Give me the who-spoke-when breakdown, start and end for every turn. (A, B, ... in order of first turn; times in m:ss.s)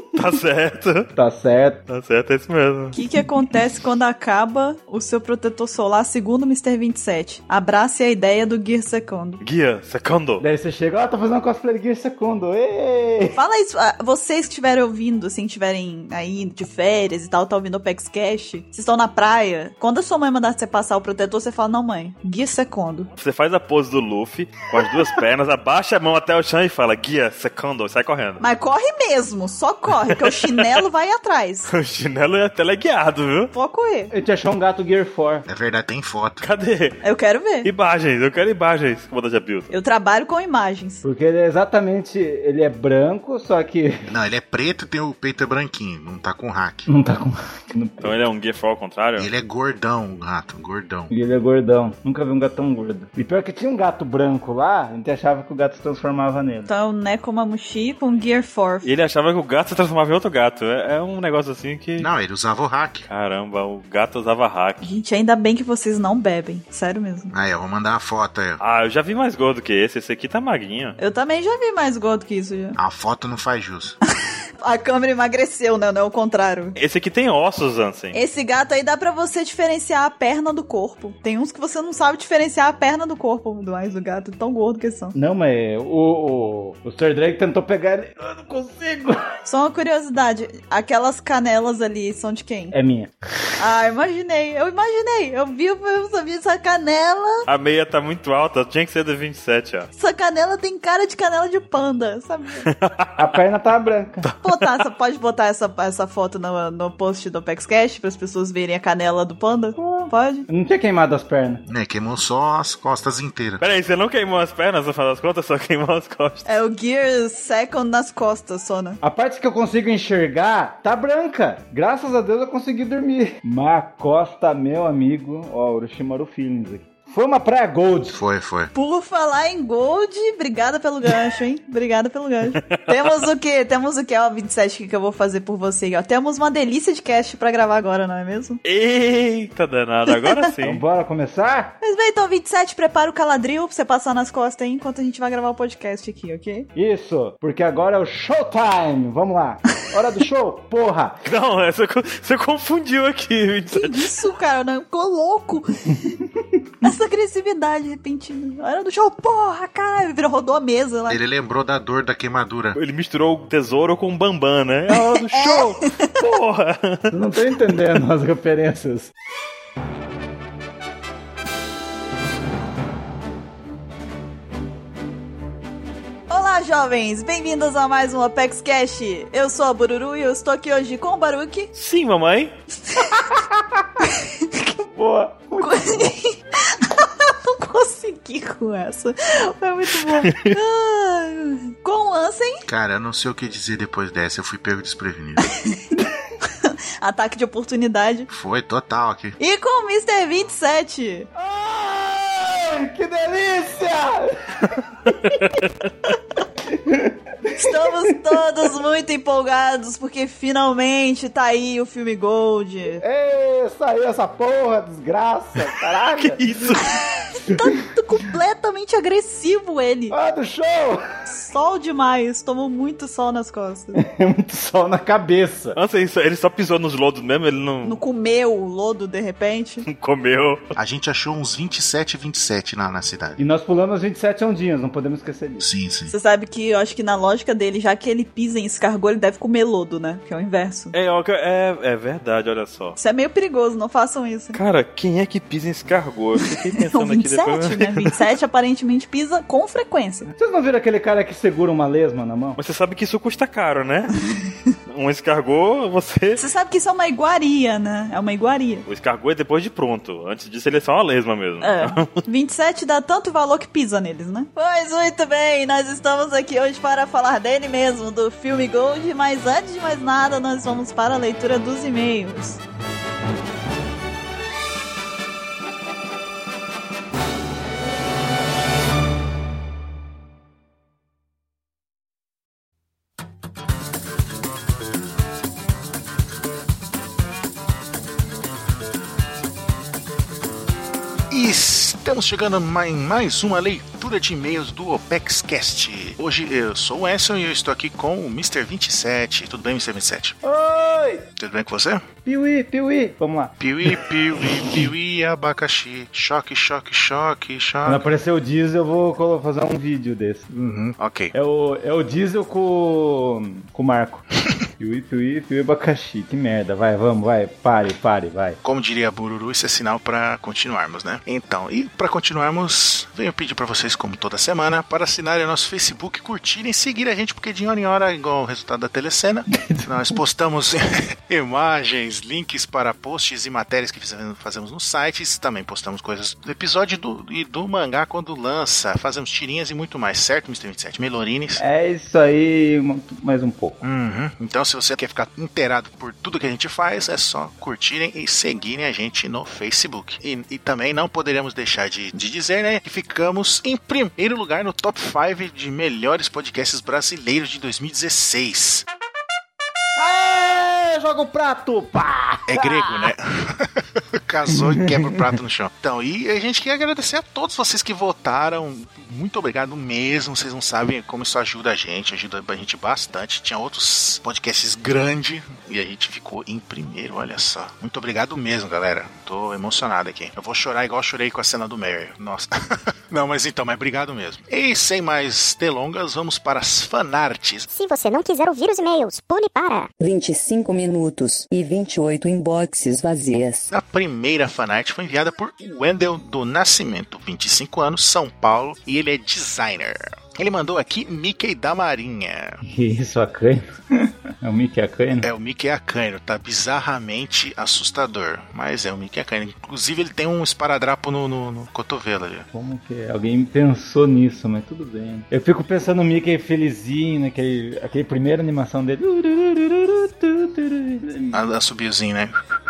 0:00.1-0:01.1 A
0:01.1-0:01.8 B
0:01.9-0:03.0 A
0:02.9-0:09.4 C
0:09.4-0:10.4 A
0:10.4-0:13.4 B
0:13.4-0:23.1 C
0:23.2-0:28.4 A
0:28.4-0:31.7 C
0:30.0-0:30.8 A
0:31.7-0:33.5 A
0:33.5-0:34.1 C
0:34.1-0:35.5 B
0:35.5-0:36.4 D
0:36.4-0:37.0 A
0:37.0-0:37.7 C
0:37.6-0:39.7 A
0:39.7-0:41.0 C
0:41.0-0:44.0 B
0:44.1-0:46.9 D
0:46.9-0:48.2 B
0:48.0-0:49.3 A
0:49.2-0:51.1 D
0:51.1-0:56.7 B
0:56.7-0:58.9 C
0:58.8-1:02.1 A
1:02.0-1:03.1 D
1:03.1-1:04.8 A
1:04.8-1:07.3 C
1:07.3-1:08.6 D
1:08.6-1:11.0 A
1:11.0-1:12.8 C
1:12.8-1:14.0 D
1:14.6-1:16.8 C
1:16.8-1:18.2 A
1:18.1-1:25.1 C
1:25.1-1:29.2 B
1:29.5-1:32.8 C
1:32.7-1:33.1 B
1:33.6-1:37.5 C
1:37.5-1:39.9 A
1:40.0-1:42.7 C
1:42.7-1:43.2 A
1:43.2-1:44.3 B
1:44.2-1:44.8 A
1:44.4-1:50.5 C
1:49.8-1:51.6 B
1:51.7-1:53.6 D
1:53.6-1:56.4 A
1:56.5-1:59.0 C
1:59.0-2:08.2 B
2:08.1-2:08.7 D
2:08.7-2:18.6 C
2:12.5-2:13.3 A
2:18.6-2:20.8 A
2:20.6-2:21.8 B
2:21.8-2:26.7 C
2:26.8-2:31.2 B
2:31.2-2:34.1 A
2:33.7-2:36.0 C
2:36.0-2:36.4 B
2:36.8-2:41.2 C
2:41.1-2:42.8 D
2:42.8-2:47.1 A
2:44.9-2:46.1 C
2:47.1-2:49.1 B
2:56.3-3:01.7 C
3:01.8-3:02.5 A
3:02.9-3:03.2 C
3:03.4-3:03.9 B
3:04.2-3:04.7 C
3:04.8-3:06.1 B
3:05.6-3:12.6 C
3:10.0-3:10.5 A
3:12.7-3:15.5 D
3:15.4-3:18.3 C
3:18.3-3:19.4 D
3:19.4-3:21.3 C
3:21.4-3:25.4 B
3:25.4-3:25.7 A
3:26.6-3:28.4 B
3:27.6-3:33.0 C
3:33.0-3:36.4 B
3:36.2-3:37.0 A
3:36.9-3:40.2 C
3:40.1-3:41.0 B
3:41.3-3:44.0 C
3:44.0-3:45.8 B
3:45.8-3:48.0 A
3:47.8-3:49.9 C
3:49.9-3:50.8 A
3:50.8-3:53.4 D
3:53.4-3:55.7 B
3:55.6-3:56.1 D
3:56.1-4:00.9 C
4:00.9-4:03.0 A
4:03.0-4:04.6 C
4:04.5-4:08.2 A
4:06.8-4:10.3 C
4:10.4-4:12.6 B
4:12.6-4:14.1 A
4:14.9-4:16.4 A
4:16.4-4:18.9 C
4:18.9-4:22.2 A
4:21.6-4:32.6 C
4:51.3-5:00.4 D
5:00.4-5:01.2 B
5:01.4-5:02.1 D
5:02.2-5:04.8 B
5:03.6-5:08.1 D
5:07.8-5:10.5 B
5:10.5-5:11.3 D
5:11.3-5:14.2 B
5:14.8-5:18.6 B
5:18.6-5:41.6 D
5:29.5-5:30.1 B
5:41.6-5:43.8 B
5:43.8-5:58.9 D
6:00.0-6:03.1 B
6:02.5-6:22.5 D
6:04.5-6:05.3 B
6:23.1-6:27.7 D
6:27.7-6:29.9 E
6:30.0-6:33.7 F
6:33.7-6:42.6 D
6:42.6-6:45.3 B
6:45.2-6:52.5 D
6:52.5-7:01.4 B
7:01.3-7:02.4 D